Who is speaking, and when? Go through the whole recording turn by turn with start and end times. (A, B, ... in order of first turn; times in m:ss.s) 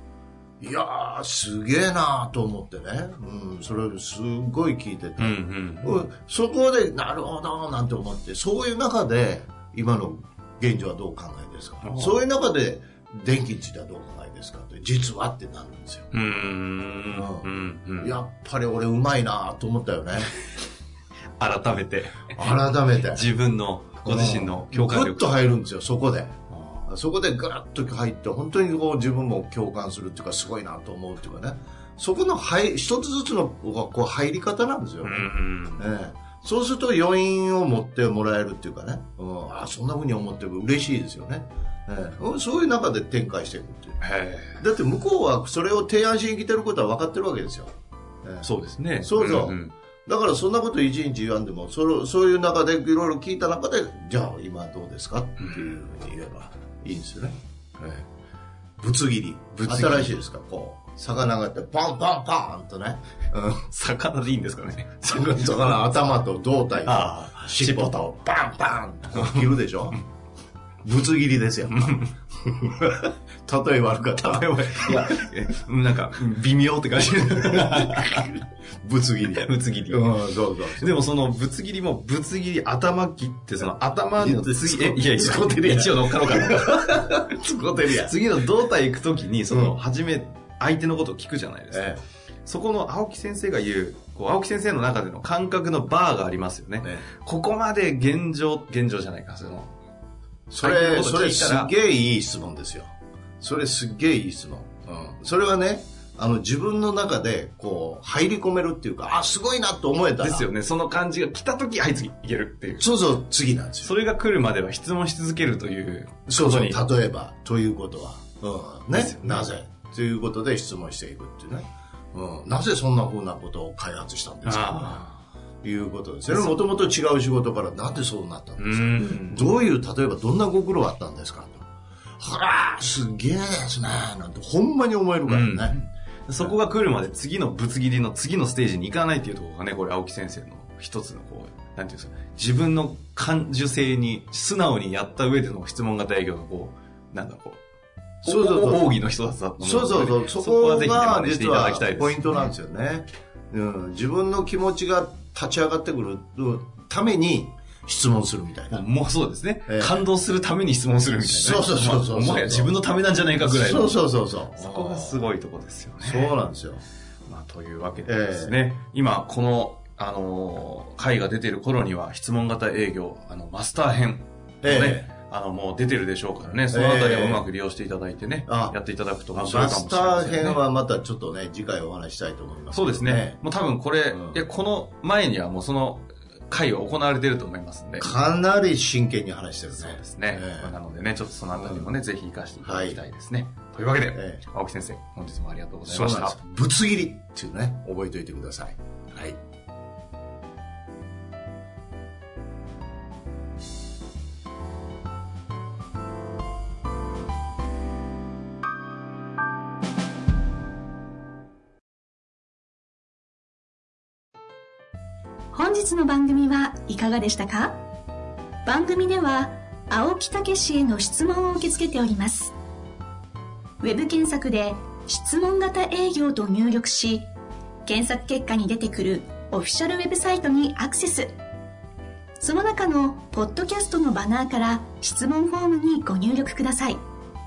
0:00.6-0:16.1 A
0:05.2-0:06.1 B
0:11.8-0:12.2 B
0:16.1-0:18.2 B
0:17.1-0:17.5 A
0:18.0-0:20.3 A
0:21.4-0:25.4 B
0:22.3-0:23.3 A
0:24.0-0:26.4 A
0:26.5-0:26.9 B
0:26.9-0:44.0 A
0:35.0-0:35.9 B
0:44.0-0:44.6 B
0:44.6-0:47.7 A
0:48.4-0:49.7 B
0:49.0-0:57.4 A
0:55.4-0:55.7 B
0:58.8-1:03.6 A
0:59.5-1:00.1 B
1:03.7-1:05.8 B
1:05.0-1:10.0 A
1:06.8-1:08.3 B
1:09.1-1:09.5 B
1:10.8-1:15.1 A
1:11.7-1:12.1 B
1:14.2-1:18.4 B
1:17.7-1:18.3 A
1:18.8-1:21.0 A
1:19.3-1:20.1 B
1:20.8-1:27.2 B
1:24.2-1:28.2 A
1:27.9-1:39.7 B
1:29.5-1:29.8 A
1:31.7-1:32.0 A
1:40.5-1:50.5 A
1:40.6-1:41.7 B
1:50.2-1:52.9 B
1:52.8-1:53.9 A
1:53.8-1:56.8 B
1:56.3-2:05.0 A
1:58.9-1:59.5 B
2:04.4-2:05.2 B
2:05.6-2:11.6 A
2:06.3-2:06.8 B
2:08.6-2:09.5 B
2:12.2-2:15.8 A
2:15.2-2:27.6 B
2:28.2-2:32.5 B
2:28.2-2:28.9 A
2:29.6-2:38.9 A
2:38.7-2:44.0 B
2:39.7-2:40.0 A
2:41.2-2:42.7 A
2:43.4-2:45.3 A
2:44.5-2:46.3 B
2:46.0-2:46.8 A
2:47.2-3:00.6 B
2:48.0-2:48.6 A
2:54.6-2:55.1 A
2:56.6-2:57.4 A
2:58.4-2:58.8 A
2:59.3-3:03.4 A
3:02.7-3:08.1 B
3:04.1-3:04.4 A
3:08.0-3:10.7 A
3:09.7-3:16.4 B
3:11.5-3:11.9 A
3:12.6-3:13.0 A
3:14.1-3:14.4 A
3:15.8-3:19.4 A
3:35.5-3:37.8 C
3:38.6-3:42.5 C
3:43.8-3:47.3 C
3:47.8-3:51.3 C
3:52.4-3:57.0 C